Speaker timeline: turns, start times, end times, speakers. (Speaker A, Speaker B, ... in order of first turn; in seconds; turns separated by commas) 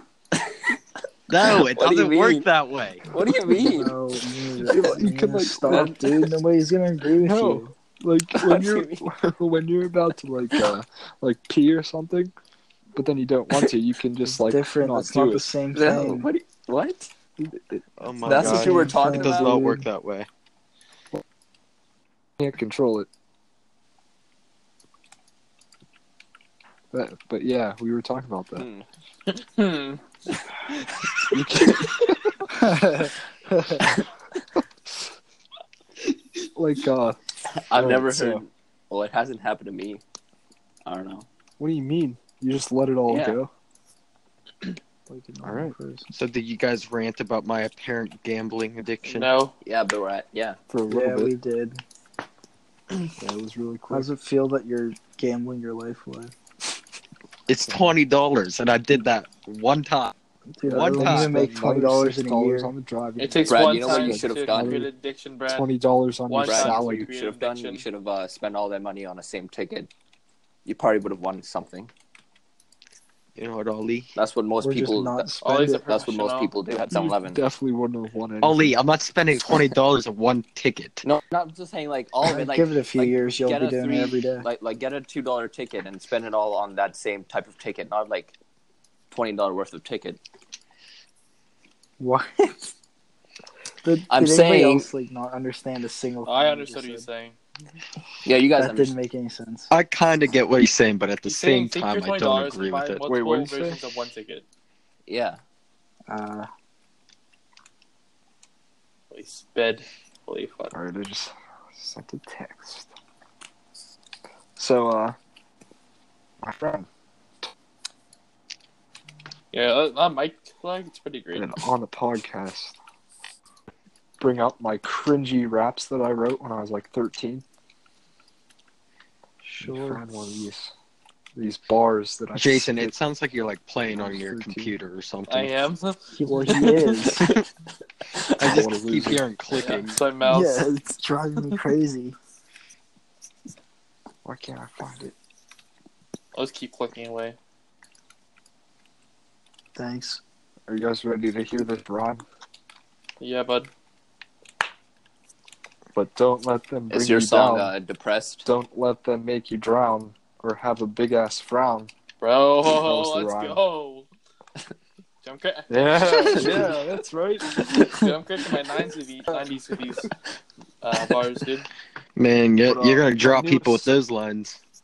Speaker A: 1.3-3.0, Speaker B: 1.4-2.5, Speaker B: 3.0-4.0, Speaker C: 3.5-7.7, Speaker D: 4.6-6.3, Speaker B: 5.7-5.9, Speaker D: 7.2-12.3, Speaker B: 8.4-9.1, Speaker D: 12.9-15.5, Speaker C: 14.3-16.3, Speaker B: 15.7-17.1, Speaker A: 18.0-20.3, Speaker B: 18.2-19.6, Speaker D: 18.2-18.7, Speaker C: 18.3-19.9, Speaker D: 22.4-23.1, Speaker D: 26.9-28.7, Speaker B: 28.6-28.8, Speaker E: 29.3-30.0, Speaker D: 31.3-32.8, Speaker C: 32.5-33.8, Speaker D: 36.5-37.2, Speaker B: 37.5-40.0, Speaker D: 37.7-38.4, Speaker B: 40.9-41.2, Speaker D: 41.6-43.5, Speaker B: 43.1-43.4, Speaker C: 45.1-46.1, Speaker D: 45.4-45.7, Speaker A: 46.1-49.3, Speaker E: 49.0-49.5, Speaker B: 49.6-50.6, Speaker D: 50.7-51.3, Speaker C: 50.9-51.8, Speaker D: 53.2-54.1, Speaker C: 53.9-56.3, Speaker A: 57.5-60.1, Speaker C: 60.5-62.7, Speaker A: 60.6-61.3, Speaker D: 60.7-64.9, Speaker E: 63.2-65.7, Speaker B: 63.5-64.8, Speaker D: 65.5-67.1, Speaker E: 66.3-67.8, Speaker B: 66.4-69.9, Speaker B: 70.6-71.9, Speaker A: 73.3-74.1, Speaker B: 74.1-77.4, Speaker C: 74.6-75.8, Speaker E: 75.4-76.5, Speaker D: 76.9-78.8, Speaker A: 78.4-81.0, Speaker B: 81.0-88.3, Speaker C: 82.2-84.5, Speaker B: 89.1-90.2, Speaker C: 92.0-92.7, Speaker C: 93.8-97.0, Speaker B: 94.1-94.9, Speaker E: 96.2-97.3, Speaker B: 98.2-99.0, Speaker C: 98.5-99.7, Speaker A: 99.7-103.0, Speaker E: 101.2-104.4, Speaker D: 103.1-103.8, Speaker B: 105.1-105.4, Speaker C: 106.1-106.5, Speaker E: 109.1-110.7, Speaker D: 110.7-112.9, Speaker D: 114.6-115.2, Speaker D: 116.4-116.9, Speaker E: 119.5-121.6, Speaker D: 121.3-122.8, Speaker D: 124.2-127.4, Speaker C: 129.4-130.0, Speaker D: 129.6-130.7, Speaker D: 131.3-132.9, Speaker A: 132.3-135.6, Speaker D: 133.9-134.7, Speaker E: 135.3-137.1, Speaker C: 136.2-137.4, Speaker D: 136.2-137.2, Speaker D: 138.4-139.2, Speaker A: 138.4-140.1, Speaker E: 139.5-140.7, Speaker C: 140.2-142.2, Speaker D: 144.2-145.1, Speaker E: 146.3-147.3, Speaker C: 149.8-150.2, Speaker D: 150.7-152.2, Speaker E: 153.2-153.7, Speaker D: 155.9-157.7, Speaker B: 156.9-158.5, Speaker D: 158.4-161.9, Speaker E: 162.2-164.1, Speaker D: 162.8-163.6, Speaker E: 165.2-166.8, Speaker D: 165.7-167.6, Speaker B: 166.2-166.8, Speaker B: 167.5-168.1, Speaker E: 167.8-170.1, Speaker E: 170.8-171.7, Speaker A: 172.2-174.6, Speaker D: 172.7-173.9